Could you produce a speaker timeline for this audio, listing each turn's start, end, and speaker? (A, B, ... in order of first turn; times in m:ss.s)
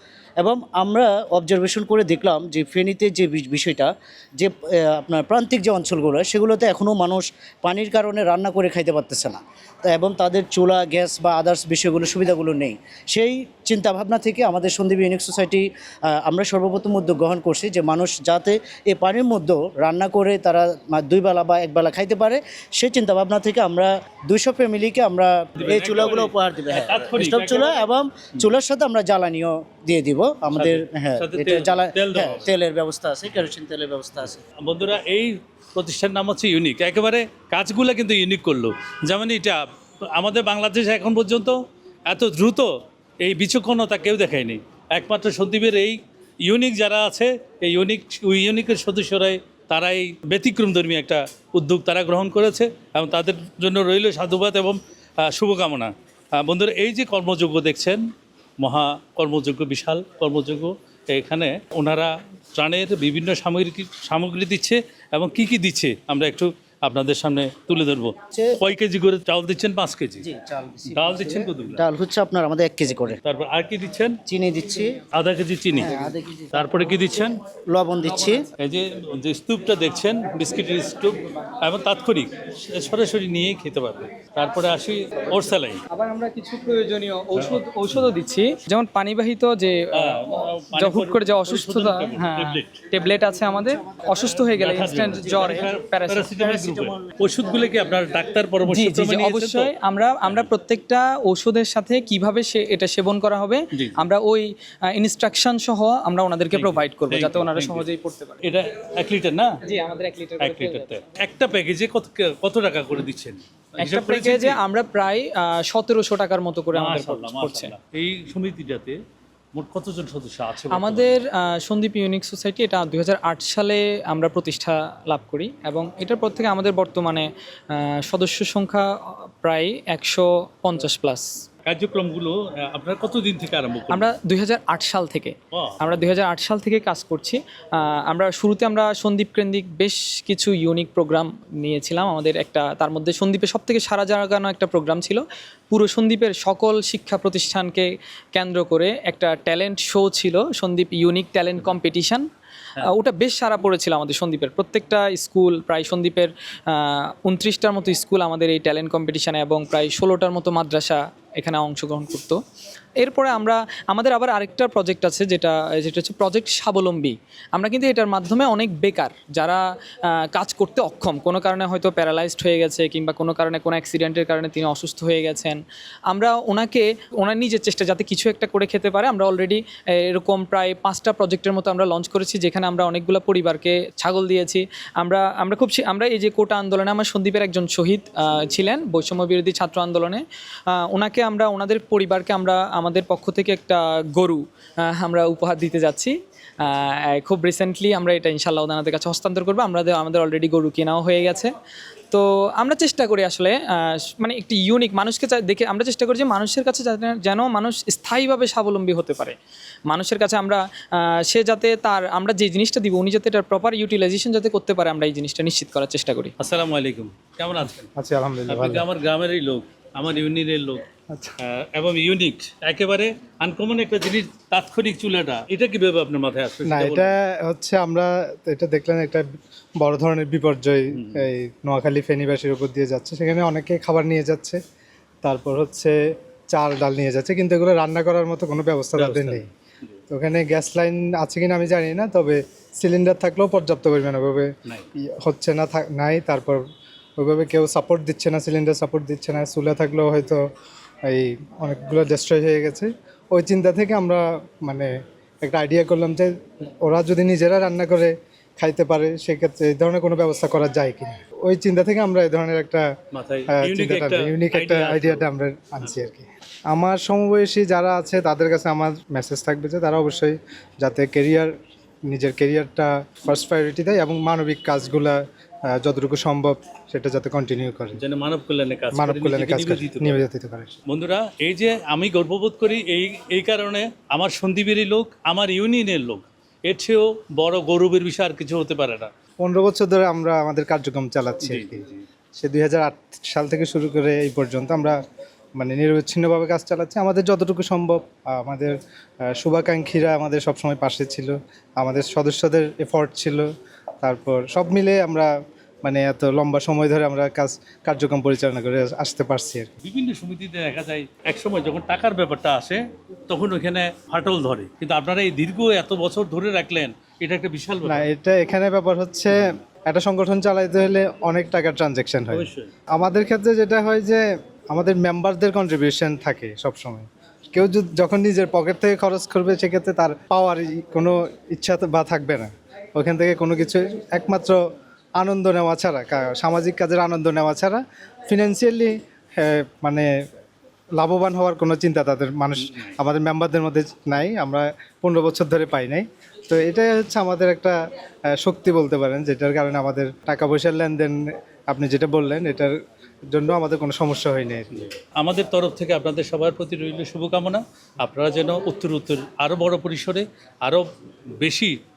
0:00.4-0:34.4 A
0:25.6-0:28.4 B
0:30.5-0:32.5 B
0:34.6-0:42.7 B
0:43.2-0:58.0 B
0:58.6-1:10.3 B
1:10.2-1:13.2 A
1:10.9-1:11.8 B
1:13.2-1:14.2 B
1:14.3-1:15.0 A
1:15.1-1:15.9 B
1:15.8-1:16.9 A
1:16.5-1:17.4 B
1:17.7-1:18.4 A
1:18.6-1:25.8 B
1:25.9-1:30.2 C
1:29.9-1:32.8 B
1:30.7-1:36.4 C
1:34.3-1:39.7 B
1:36.6-1:37.0 A
1:38.7-1:48.4 C
1:43.7-1:44.0 B
1:46.5-1:47.9 B
1:48.4-1:49.5 B
1:49.6-1:51.0 C
1:50.4-1:54.6 B
1:53.8-1:57.7 C
1:56.7-1:59.0 B
1:59.5-2:01.2 B
2:00.7-2:11.3 C
2:11.6-2:14.1 B
2:13.9-2:32.2 C
2:15.5-2:16.0 B
2:32.8-2:42.4 C
2:43.0-3:21.5 C
3:22.1-3:29.4 C
3:29.9-3:36.3 C
3:36.4-3:37.9 B
3:37.9-3:38.8 D
3:38.5-3:40.8 B
3:41.1-3:41.4 D
3:41.4-3:47.1 B
3:46.6-3:49.3 D
3:49.8-3:54.6 D
3:50.9-3:51.3 B
3:55.2-3:56.0 D
3:56.5-3:59.5 D
3:59.0-4:00.0 B
4:00.1-4:06.6 D
4:07.2-4:10.4 D
4:11.0-4:22.9 D
4:23.1-4:26.0 B
4:23.5-4:31.5 D
4:32.1-4:38.0 D
4:38.0-4:40.2 B
4:38.9-4:40.8 D
4:40.9-4:49.1 B
4:49.4-4:51.8 D
4:51.4-4:52.0 B
4:52.4-4:55.0 D
4:55.6-4:58.8 D
4:59.3-5:03.5 D
5:04.0-5:05.3 D
5:05.8-5:09.7 D
5:09.8-5:18.1 B
5:17.8-5:34.6 D
5:22.3-5:22.7 B
5:35.2-5:40.1 D
5:41.0-5:47.8 D
5:42.7-5:43.0 B
5:48.4-5:52.8 D
5:53.3-5:54.7 D
5:54.7-6:00.9 B
6:01.4-6:01.8 B